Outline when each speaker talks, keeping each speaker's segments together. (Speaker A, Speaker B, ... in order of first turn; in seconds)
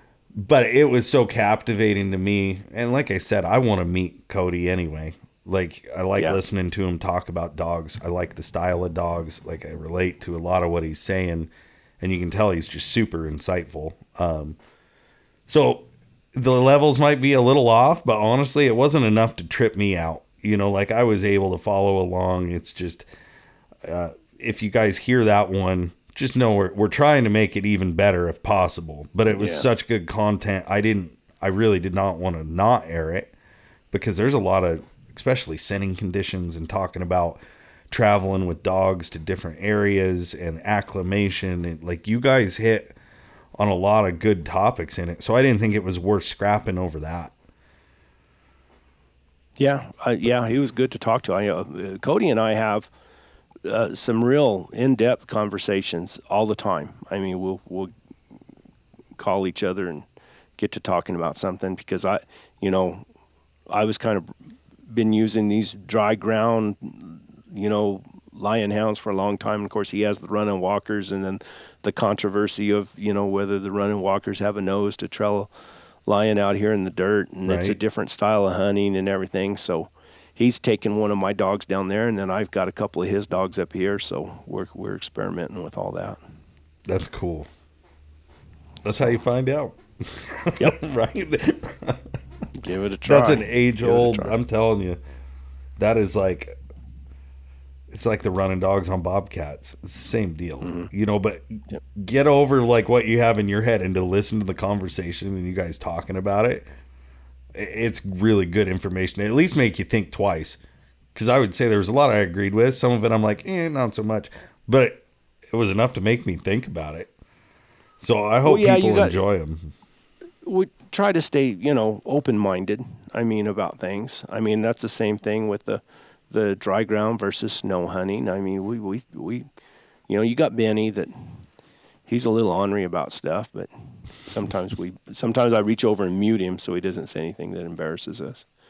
Speaker A: 0.4-14.6, 15.5-23.1, 23.8-33.3, 33.9-37.4, 37.9-43.0, 43.6-47.3, 77.5-77.8, 86.9-87.5, 88.8-92.2, 93.0-95.0, 95.8-96.6, 97.9-106.7, 107.5-110.6, 111.2-117.1, 118.0-119.7
Speaker B: 29.3-29.7, 49.6-52.9, 53.6-57.9, 59.2-60.1, 60.6-63.0, 63.7-64.3, 64.9-75.5, 76.1-86.2, 88.9-89.2, 92.5-94.4, 100.6-100.9, 118.5-119.2, 120.4-129.5, 130.1-131.4, 132.1-138.5